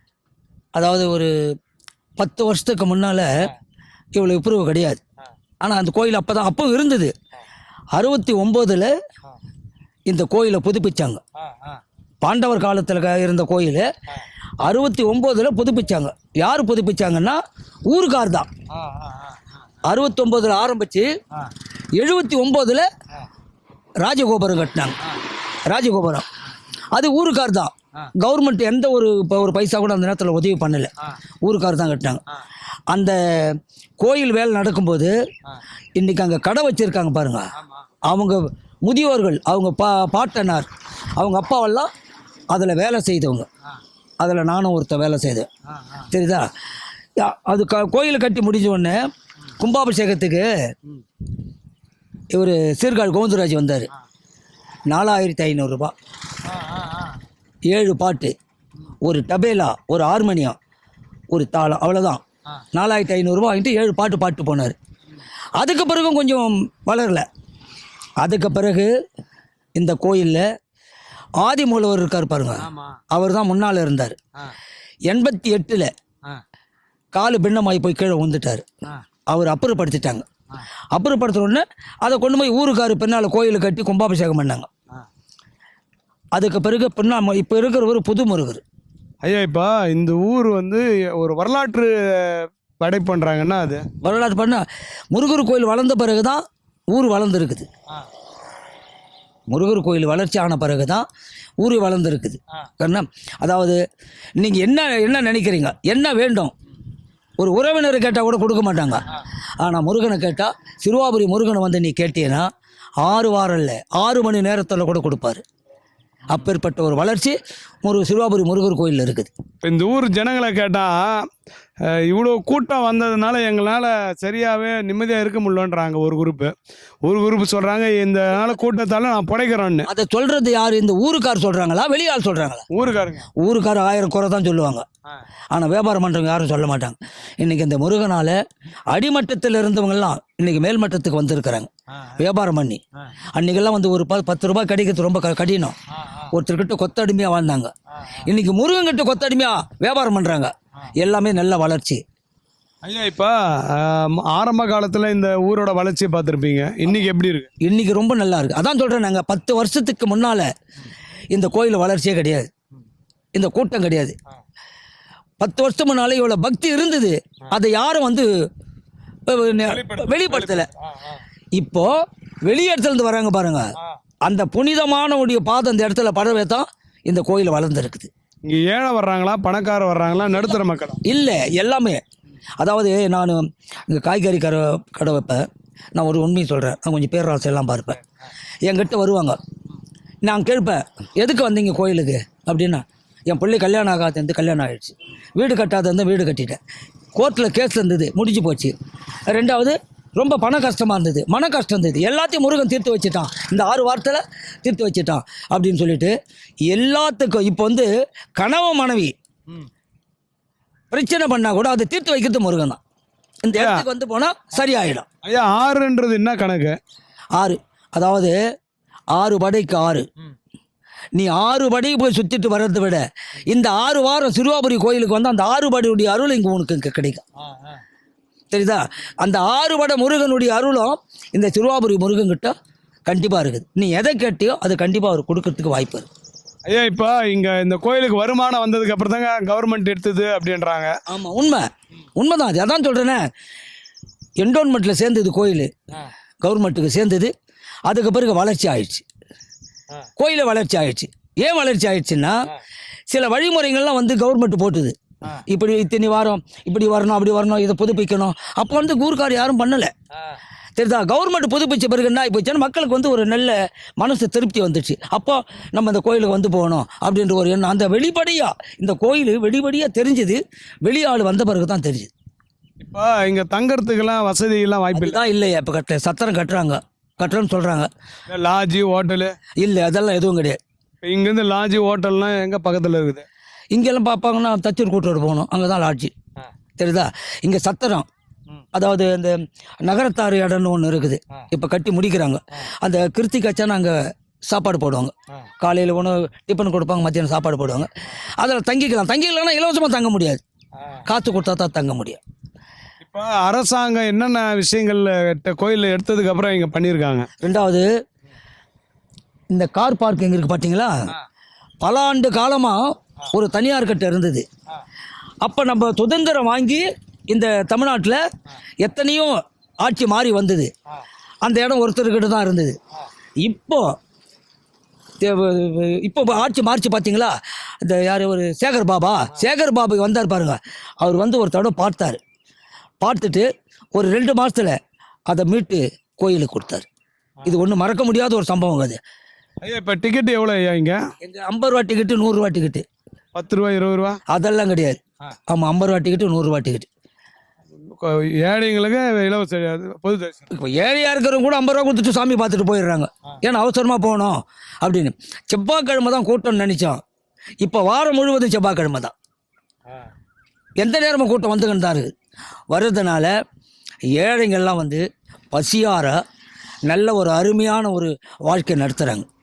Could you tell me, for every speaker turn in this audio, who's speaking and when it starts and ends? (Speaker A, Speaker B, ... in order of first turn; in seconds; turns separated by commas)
Speaker A: 0.8-1.3, Speaker A: 2.2-3.5, Speaker A: 4.2-5.0, Speaker A: 5.6-7.1, Speaker A: 8.0-8.9, Speaker A: 10.1-11.2, Speaker A: 12.2-13.9, Speaker A: 14.6-18.5, Speaker A: 19.8-21.1, Speaker A: 22.0-22.9, Speaker A: 24.0-25.0, Speaker A: 25.7-26.3, Speaker A: 26.9-30.9, Speaker A: 31.4-32.2, Speaker A: 32.9-35.1, Speaker A: 36.0-37.5, Speaker A: 38.1-41.9, Speaker A: 42.5-43.5, Speaker A: 44.2-45.5, Speaker A: 46.1-46.5, Speaker A: 47.2-49.0, Speaker A: 49.6-50.5, Speaker A: 52.3-53.9, Speaker A: 54.9-55.9, Speaker A: 57.7-58.3, Speaker A: 59.0-60.6, Speaker A: 61.3-62.2, Speaker A: 62.7-64.8, Speaker A: 65.6-67.3, Speaker A: 68.2-68.9, Speaker A: 69.8-70.4, Speaker A: 71.4-74.2, Speaker B: 72.6-73.0, Speaker A: 75.1-75.9, Speaker A: 77.1-78.7, Speaker A: 79.3-80.3, Speaker A: 81.0-84.7, Speaker A: 86.3-88.6, Speaker B: 89.2-93.9, Speaker A: 94.0-97.7, Speaker A: 99.5-101.1, Speaker A: 101.6-103.8, Speaker A: 104.4-106.5, Speaker A: 107.4-112.5, Speaker A: 113.0-115.4, Speaker A: 116.3-119.3, Speaker B: 119.6-121.3, Speaker B: 121.8-126.5, Speaker B: 127.0-129.9, Speaker A: 129.9-132.7, Speaker B: 132.7-133.3, Speaker A: 133.4-134.9, Speaker A: 135.5-138.3, Speaker A: 138.9-142.8, Speaker A: 143.3-145.8, Speaker A: 146.3-147.7, Speaker A: 148.2-152.0, Speaker B: 152.8-157.5, Speaker A: 157.6-160.5, Speaker A: 161.3-162.5, Speaker A: 163.3-164.2, Speaker A: 165.4-168.3, Speaker A: 169.3-170.7, Speaker B: 169.6-171.2, Speaker A: 171.6-171.9, Speaker A: 172.4-173.7, Speaker A: 174.2-178.1, Speaker B: 178.5-181.0, Speaker A: 181.1-182.0, Speaker A: 182.6-188.0, Speaker A: 188.6-189.4, Speaker A: 190.2-196.6, Speaker A: 197.2-198.7, Speaker A: 199.3-206.2, Speaker A: 206.7-209.1, Speaker A: 210.9-212.8, Speaker A: 213.4-215.1, Speaker B: 213.5-213.9, Speaker B: 215.2-216.8, Speaker A: 217.4-218.4, Speaker A: 219.1-220.1, Speaker A: 221.2-227.2, Speaker B: 227.5-227.8, Speaker A: 228.5-232.6, Speaker A: 233.1-236.1, Speaker B: 236.7-240.9, Speaker A: 241.1-243.2, Speaker A: 244.4-245.7, Speaker A: 246.4-247.3, Speaker A: 247.9-249.1, Speaker A: 250.2-252.4, Speaker A: 253.1-254.9, Speaker A: 255.5-259.9, Speaker A: 260.8-272.1, Speaker B: 272.8-275.2, Speaker A: 274.9-277.9, Speaker B: 278.3-279.4, Speaker A: 279.6-280.6, Speaker B: 281.0-283.3, Speaker A: 283.7-286.1, Speaker A: 286.8-288.1, Speaker A: 288.7-294.0, Speaker A: 294.5-300.4, Speaker A: 301.1-302.2, Speaker B: 303.0-307.3, Speaker A: 307.4-307.9, Speaker A: 309.5-310.9, Speaker A: 311.8-314.5, Speaker A: 315.4-318.2, Speaker A: 318.8-320.7, Speaker A: 321.4-322.8, Speaker A: 323.4-323.9, Speaker A: 325.2-332.2, Speaker A: 333.0-334.8, Speaker A: 335.3-336.9, Speaker A: 337.5-339.0, Speaker B: 339.6-341.0, Speaker A: 341.2-342.9, Speaker B: 343.4-344.2, Speaker A: 344.3-346.9, Speaker B: 347.8-350.5, Speaker A: 350.5-357.0, Speaker A: 357.6-359.1, Speaker A: 360.8-362.1, Speaker A: 362.7-363.3, Speaker A: 364.1-366.2, Speaker A: 366.9-369.3